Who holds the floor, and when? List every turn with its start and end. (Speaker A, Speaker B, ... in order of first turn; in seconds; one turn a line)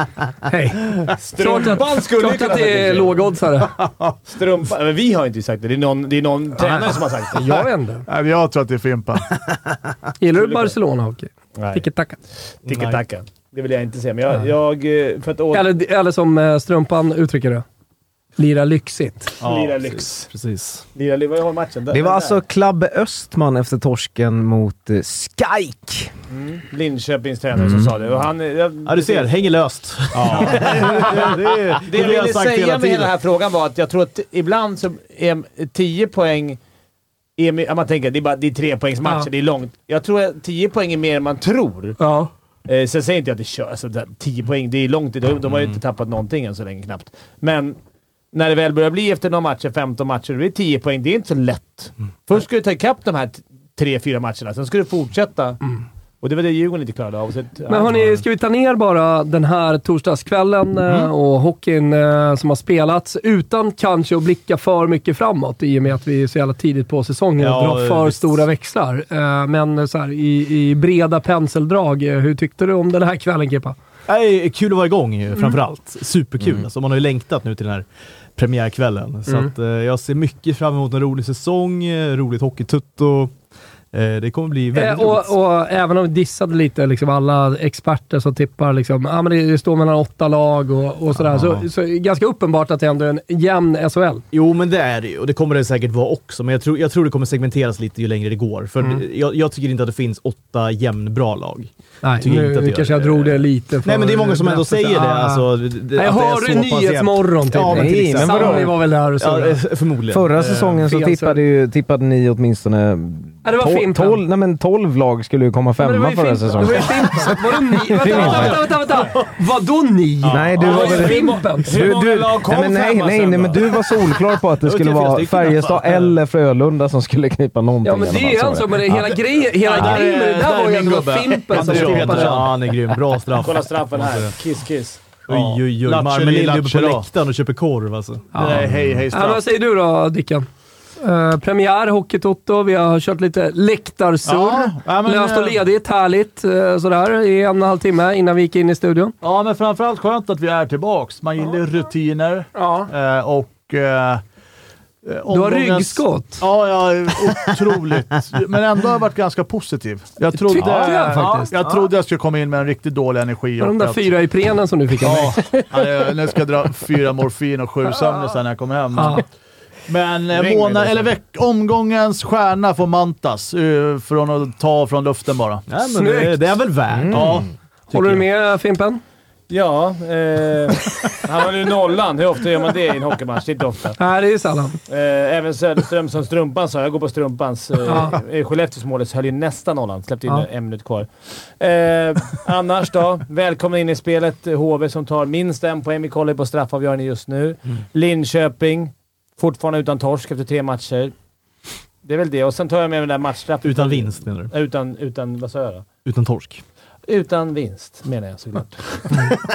Speaker A: 0.5-3.8
Speaker B: 1.2-3.2
Speaker B: 4.3-7.4
Speaker A: 6.6-8.0
Speaker C: 8.1-9.3
Speaker A: 10.2-12.2
Speaker B: 10.3-10.8
Speaker B: 11.6-11.8
Speaker D: 12.7-13.0
Speaker B: 12.7-15.7
Speaker A: 15.5-17.6
Speaker A: 18.4-19.3
Speaker C: 19.4-19.7
Speaker B: 19.4-20.3
Speaker D: 20.3-20.9
Speaker B: 20.9-22.4
Speaker E: 21.9-26.1
Speaker B: 26.3-29.3
Speaker C: 27.6-27.9
Speaker D: 28.9-33.1
Speaker C: 30.2-30.7
Speaker B: 30.2-36.6
Speaker B: 37.4-42.0
Speaker A: 39.0-39.3
Speaker A: 42.0-42.3
Speaker B: 42.7-47.8
Speaker B: 48.3-55.6
Speaker B: 56.2-58.2
Speaker A: 57.7-73.8
Speaker D: 60.8-61.1
Speaker D: 67.4-68.4
Speaker D: 74.1-83.3
Speaker D: 83.9-85.3
Speaker A: 84.7-94.2
Speaker D: 91.2-91.7
Speaker D: 94.3-110.7
Speaker A: 102.0-109.6
Speaker E: 107.7-108.7
Speaker E: 110.1-118.7
Speaker A: 110.8-111.4
Speaker A: 113.4-114.2
Speaker A: 115.8-121.7
Speaker E: 120.3-128.8
Speaker B: 120.5-123.9
Speaker D: 124.6-126.1
Speaker A: 127.8-132.5
Speaker C: 129.5-132.6
Speaker D: 131.5-134.3
Speaker B: 133.4-135.1
Speaker D: 135.3-138.3
Speaker C: 135.3-137.1
Speaker A: 138.3-140.4
Speaker C: 138.3-139.4
Speaker A: 141.0-149.1
Speaker C: 144.3-145.6
Speaker C: 149.2-154.2
Speaker A: 152.6-152.9
Speaker C: 155.1-164.1
Speaker A: 155.3-156.4
Speaker A: 160.3-161.5
Speaker D: 160.6-161.4
Speaker A: 163.6-165.7
Speaker C: 165.0-169.3
Speaker A: 168.9-169.2
Speaker C: 169.9-175.6
Speaker B: 170.3-171.1
Speaker D: 175.7-178.2
Speaker A: 175.9-176.6
Speaker E: 177.0-177.3
Speaker C: 177.1-177.5
Speaker A: 177.9-179.0
Speaker B: 179.5-184.0
Speaker A: 184.0-184.8
Speaker B: 184.9-201.1
Speaker A: 187.9-188.2
Speaker B: 202.0-205.9
Speaker D: 203.6-204.5
Speaker D: 206.1-206.6
Speaker B: 207.1-209.1